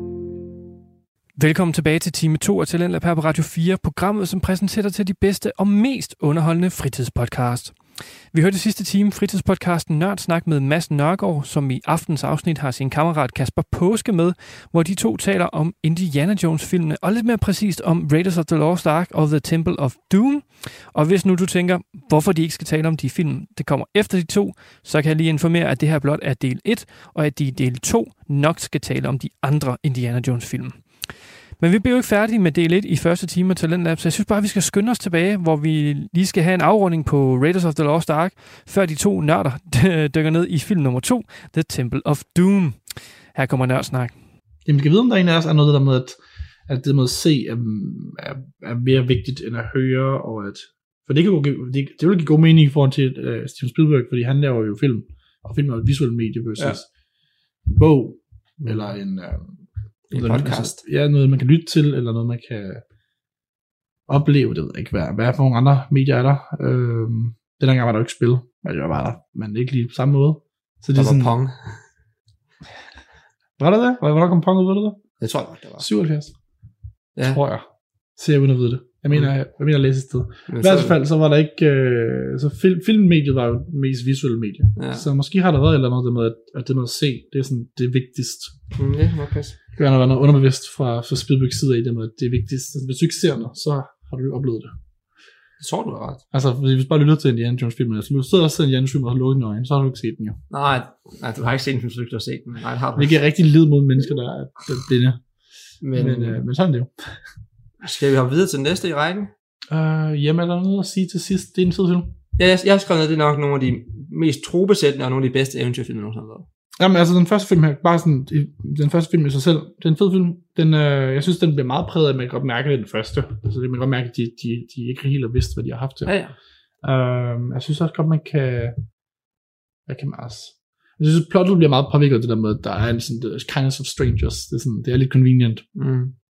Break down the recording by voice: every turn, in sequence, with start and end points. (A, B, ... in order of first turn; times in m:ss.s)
0:01.4-0:07.8 A
0:08.3-0:44.1 A
0:44.6-0:46.2 B
0:46.7-0:56.8 B
0:57.6-0:59.6 B
1:00.1-1:00.8 C
1:00.1-1:02.8 B
1:04.1-1:11.3 B
1:10.9-1:11.8 C
1:13.6-1:15.0 B
1:15.2-1:15.8 C
1:15.8-1:16.3 B
1:17.2-1:17.6 B
1:18.2-1:28.6 B
1:20.5-1:21.0 C
1:24.8-1:25.0 C
1:28.7-1:29.6 C
1:29.8-1:34.7 B
1:35.6-1:36.2 C
1:36.3-1:40.4 B
1:40.5-1:43.2 C
1:43.0-1:45.2 B
1:45.8-1:46.4 C
1:45.9-1:47.2 B
1:47.8-1:49.3 C
1:49.7-1:52.1 B
1:52.4-1:56.4 C
1:56.8-2:06.1 B
2:06.0-2:06.3 C
2:06.8-2:08.7 B
2:09.9-2:15.6 B
2:15.8-2:16.1 C